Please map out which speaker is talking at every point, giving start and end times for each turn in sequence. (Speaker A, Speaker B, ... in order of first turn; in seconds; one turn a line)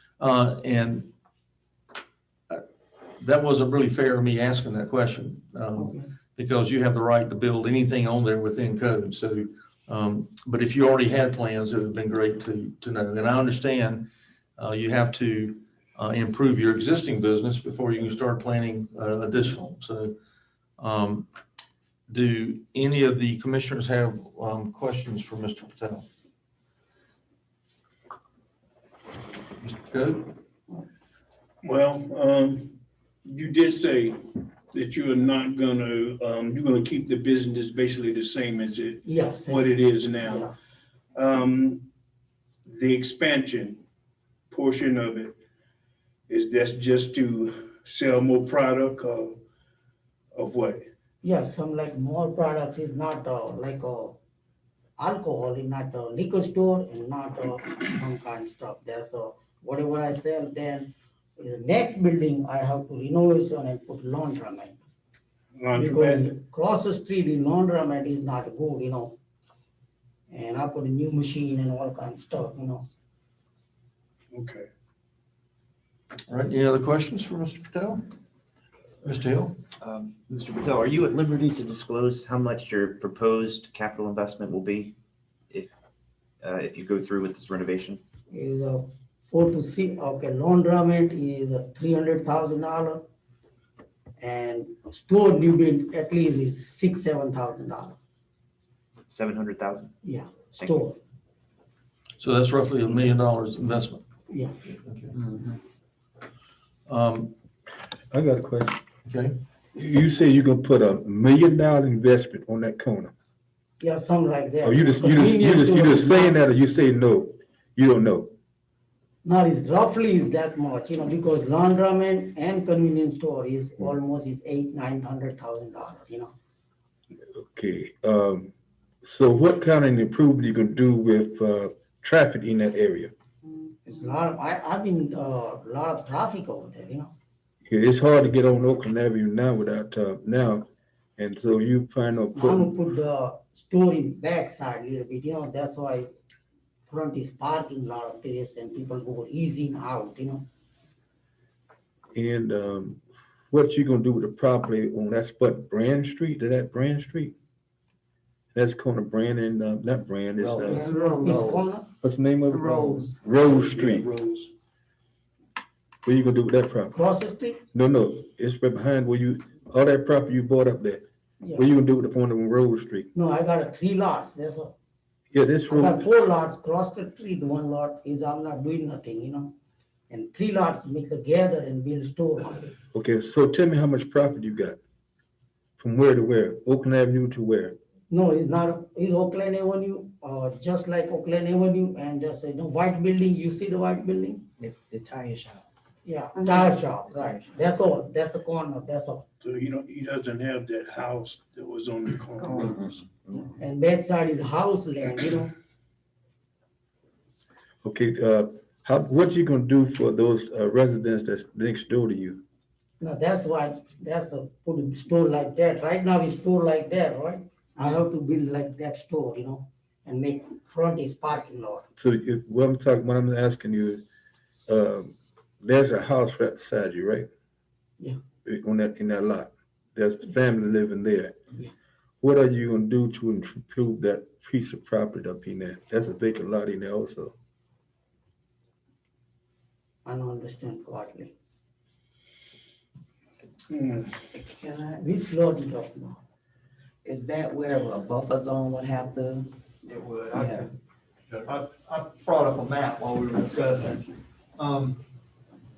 Speaker A: 0.2-1.1
Speaker A: 3.2-14.1
Speaker B: 5.8-6.1
Speaker A: 14.6-20.1
Speaker A: 20.8-21.3
Speaker A: 22.1-26.1
Speaker A: 29.6-30.3
Speaker C: 31.6-34.2
Speaker C: 34.7-40.5
Speaker B: 39.0-40.5
Speaker C: 41.1-41.8
Speaker C: 42.7-43.8
Speaker C: 44.5-45.4
Speaker C: 46.3-49.4
Speaker C: 50.4-50.9
Speaker B: 51.2-54.2
Speaker B: 55.0-64.8
Speaker C: 65.6-66.3
Speaker B: 65.7-69.2
Speaker B: 70.3-72.9
Speaker C: 74.3-74.7
Speaker A: 76.3-78.0
Speaker A: 79.0-79.6
Speaker D: 79.8-84.9
Speaker D: 86.4-88.0
Speaker B: 88.3-93.0
Speaker B: 94.2-98.0
Speaker D: 99.1-99.9
Speaker B: 100.0-101.0
Speaker A: 102.2-104.0
Speaker B: 104.3-104.6
Speaker A: 104.7-105.1
Speaker A: 106.9-107.3
Speaker E: 108.1-108.8
Speaker A: 109.1-109.4
Speaker E: 109.8-113.1
Speaker B: 113.8-116.4
Speaker E: 114.6-118.3
Speaker B: 119.2-126.3
Speaker E: 127.3-128.5
Speaker E: 129.0-133.1
Speaker B: 133.8-137.1
Speaker E: 137.7-142.7
Speaker B: 142.3-146.1
Speaker B: 146.9-150.5
Speaker E: 152.2-157.3
Speaker E: 158.5-160.9
Speaker F: 160.4-161.7
Speaker B: 160.6-161.9
Speaker E: 162.0-164.1
Speaker F: 162.5-163.1
Speaker C: 163.5-164.5
Speaker E: 166.1-167.0
Speaker B: 166.9-167.6
Speaker E: 167.7-171.0
Speaker E: 171.6-173.1
Speaker B: 173.1-174.7
Speaker E: 175.3-176.0
Speaker B: 175.7-179.5
Speaker B: 180.1-182.7
Speaker E: 182.9-184.8
Speaker E: 185.8-187.8
Speaker B: 188.1-194.4
Speaker F: 194.6-195.7
Speaker B: 196.0-199.2
Speaker F: 196.3-197.5
Speaker C: 199.4-202.8
Speaker F: 202.4-203.5
Speaker B: 203.6-205.6
Speaker E: 207.8-212.4
Speaker B: 213.0-221.9
Speaker E: 222.0-224.0
Speaker E: 224.7-227.3
Speaker E: 228.4-231.3
Speaker E: 232.2-237.3
Speaker B: 240.1-241.3
Speaker C: 243.7-244.1
Speaker F: 244.3-245.2
Speaker B: 245.0-246.2
Speaker F: 247.0-249.5
Speaker G: 249.8-250.7
Speaker F: 250.3-250.7
Speaker G: 251.4-255.0